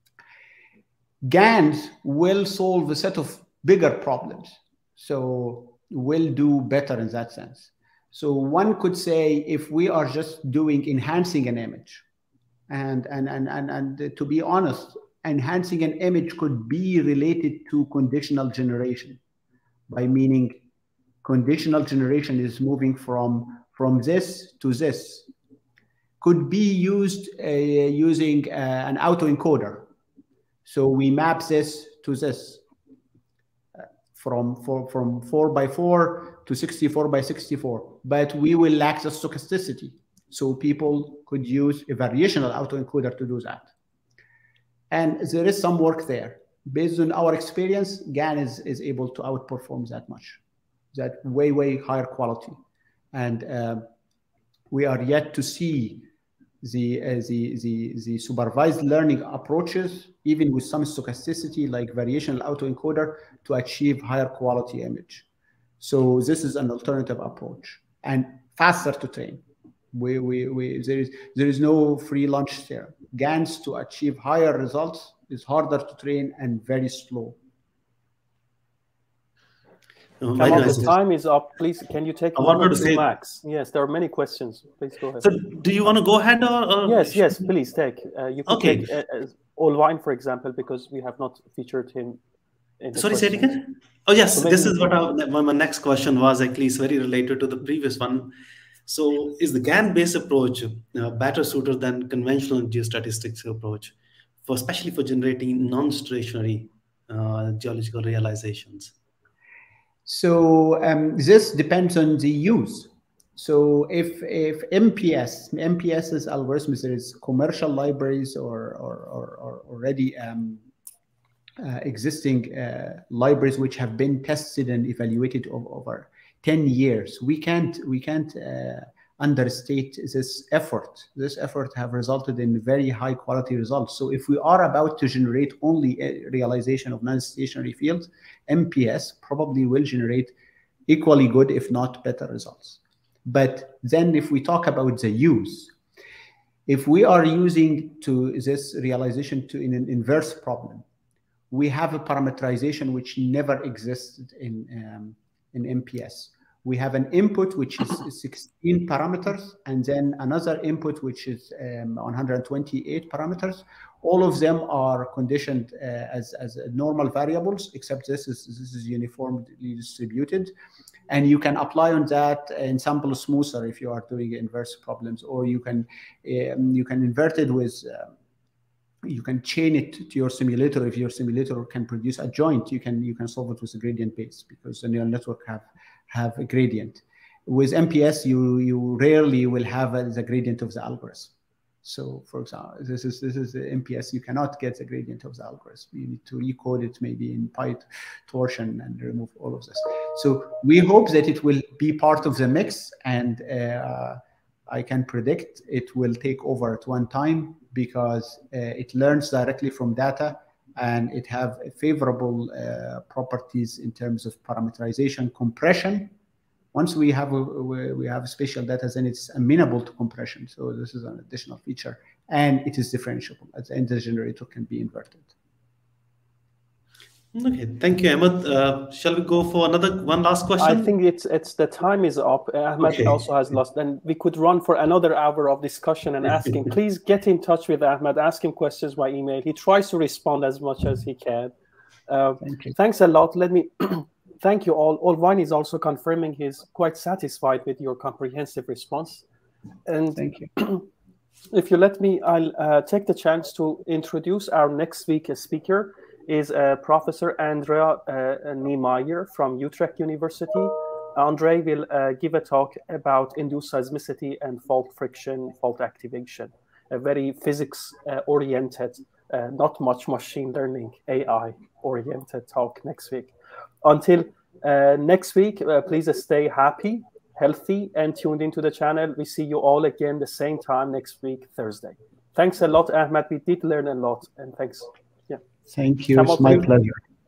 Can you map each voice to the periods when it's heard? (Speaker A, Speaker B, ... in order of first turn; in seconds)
Speaker A: 1.2-12.0, 12.7-19.2, 19.9-20.6, 21.2-25.3, 26.2-29.9, 30.6-32.6, 33.8-43.7, 44.9-50.4, 50.9-52.6, 53.1-53.9, 54.7-56.1, 56.6-65.3, 65.8-77.4, 110.1-120.7, 121.6-140.3, 140.9-145.7, 146.7-150.8, 151.5-170.5, 171.1-178.1, 179.0-191.3, 191.8-216.1, 216.7-225.3, 242.4-242.7, 250.2-250.5, 285.7-286.9
Speaker B: 80.2-81.0, 82.4-83.0, 85.2-87.5, 88.5-88.9, 93.0-98.3, 98.9-109.0, 227.3-230.9
Speaker C: 80.4-85.3, 86.9-92.2, 92.8-93.6, 94.3-95.0, 230.6-241.5, 242.1-249.2, 249.9-250.8, 251.5-285.4, 286.1-286.7